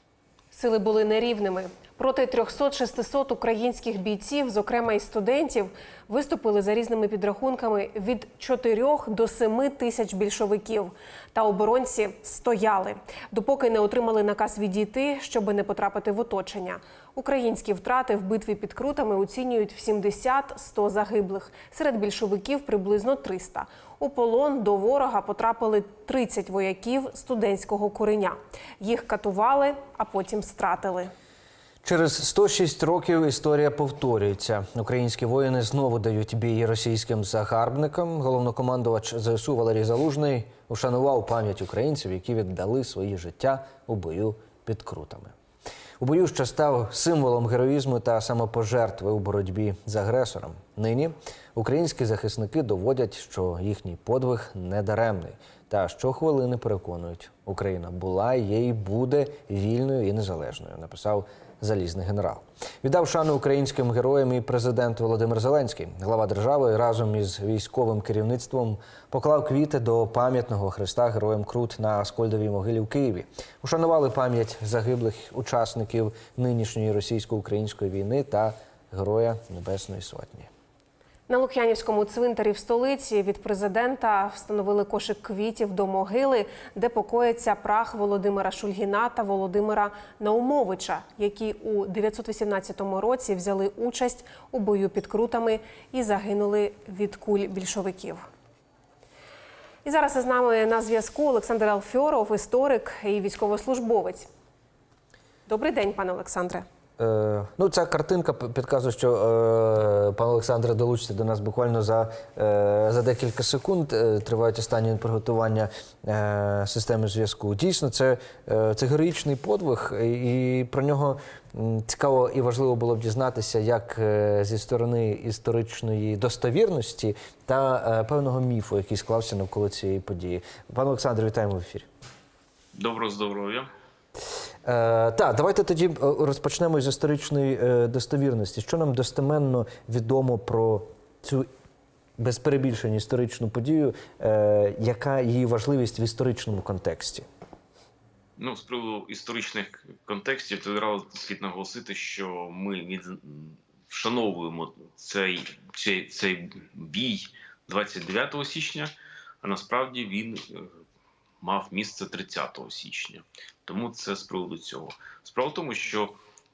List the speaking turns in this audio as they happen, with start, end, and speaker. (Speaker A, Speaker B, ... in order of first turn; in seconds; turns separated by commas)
Speaker A: 0.5-31.1, Speaker B: 31.8-45.3, Speaker B: 46.0-80.5, Speaker A: 81.3-98.2, Speaker A: 99.8-104.3, Speaker A: 105.5-106.6, Speaker B: 107.0-131.9, Speaker C: 132.7-133.7, Speaker B: 134.6-141.5, Speaker B: 142.2-147.2, Speaker C: 148.4-160.8, Speaker C: 161.4-166.2